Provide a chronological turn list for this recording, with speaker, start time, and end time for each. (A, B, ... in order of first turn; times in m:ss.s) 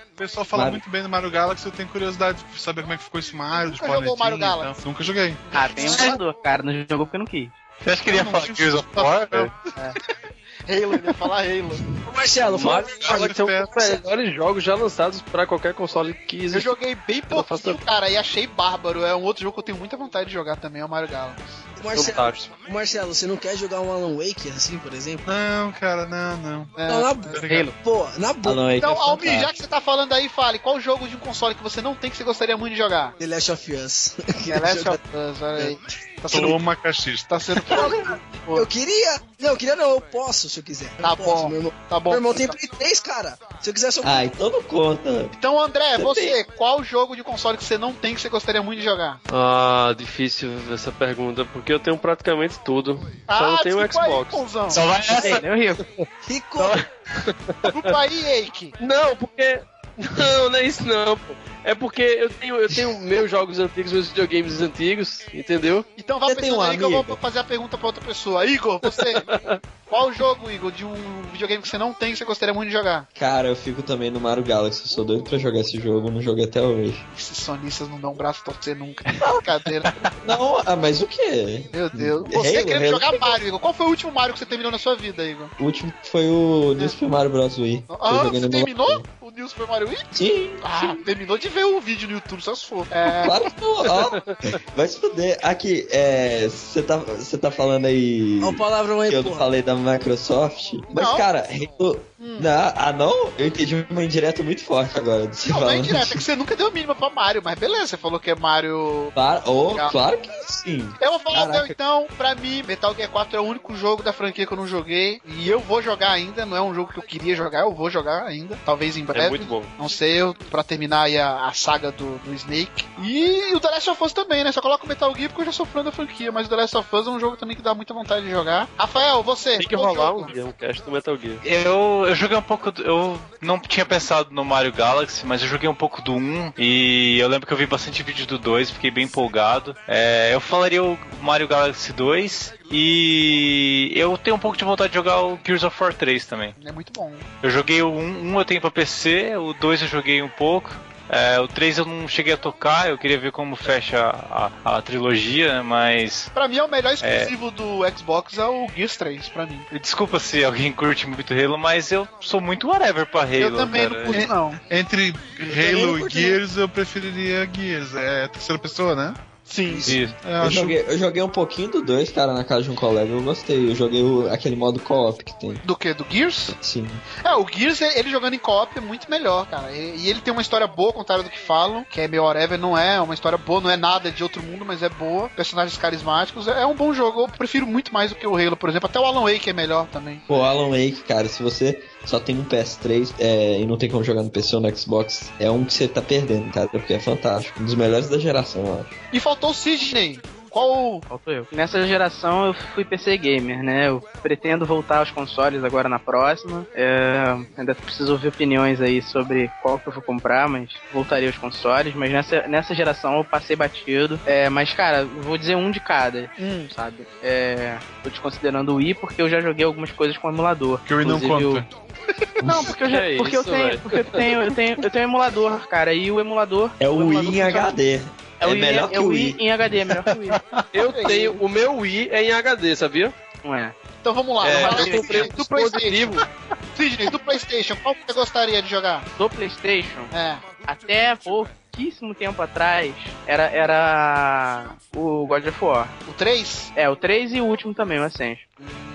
0:00.2-0:05.5 A
0:00.5-0:00.8 B
0:03.6-0:04.8 C
0:05.5-0:06.2 C
0:05.5-0:07.6 D
0:07.8-0:09.5 E
0:08.1-0:09.1 C
0:09.0-0:09.5 A
0:10.7-0:11.9 C
0:12.0-0:14.0 F
0:12.6-0:13.9 A
0:12.6-0:16.8 G
0:16.5-0:21.7 C
0:17.3-0:17.8 G
0:21.8-0:25.2 F
0:21.9-0:22.5 G
0:25.3-0:27.7 A
0:26.8-0:27.3 C
0:26.9-0:28.7 F
0:28.4-0:29.6 B
0:28.7-0:33.2 C
0:33.2-0:35.0 F
0:34.4-0:36.6 C
0:36.3-0:37.9 A
0:37.3-0:38.7 C
0:37.7-0:44.3 F
0:41.0-0:42.6 C
0:44.0-0:45.4 B
0:45.4-0:49.2 C
0:45.9-0:46.4 B
0:49.3-0:54.4 G
0:53.3-0:54.9 C
0:54.7-0:55.4 E
0:55.2-0:55.9 D
0:56.2-0:56.8 F
0:56.7-0:57.7 G
0:57.6-0:58.7 C
0:58.8-1:05.9 G
1:06.0-1:13.1 C
1:06.2-1:07.2 B
1:09.0-1:09.6 G
1:13.2-1:17.0 B
1:17.1-1:20.1 C
1:20.2-1:23.4 B
1:21.7-1:25.5 C
1:25.6-1:29.1 B
1:27.9-1:30.1 C
1:30.1-1:31.0 B
1:30.6-1:33.4 C
1:33.1-1:46.2 B
1:38.4-1:39.4 F
1:40.9-1:41.3 C
1:42.2-1:42.5 C
1:45.5-1:49.1 C
1:49.2-1:51.8 B
1:51.0-2:10.3 C
1:59.1-1:59.7 G
2:09.6-2:11.4 G
2:11.4-2:26.6 E
2:26.6-2:27.3 C
2:27.4-2:36.3 E
2:36.4-2:39.7 C
2:37.0-2:37.3 E
2:39.7-2:44.3 E
2:43.4-2:44.6 C
2:44.7-2:49.2 A
2:45.5-2:46.4 F
2:49.4-2:50.0 C
2:49.7-2:50.0 F
2:49.9-2:55.6 B
2:50.2-2:50.8 A
2:55.6-2:56.6 C
2:56.5-2:57.0 B
2:57.2-3:10.2 C
3:10.3-3:19.0 B
3:19.1-3:21.1 C
3:21.1-3:41.7 D
3:36.4-3:36.7 C
3:40.8-3:41.7 A
3:42.4-3:47.7 D
3:42.8-3:44.3 G
3:46.8-3:49.4 B
3:48.4-3:50.4 D
3:50.1-3:50.6 E
3:50.7-3:53.2 G
3:50.8-3:51.4 C
3:53.4-3:53.8 D
3:54.0-3:56.2 C
3:54.4-3:56.2 G
3:54.5-3:55.4 D
3:56.8-3:59.1 C
3:59.2-4:00.1 D
4:00.1-4:00.5 C
4:00.6-4:05.9 D
4:06.1-4:06.7 C
4:06.8-4:08.5 D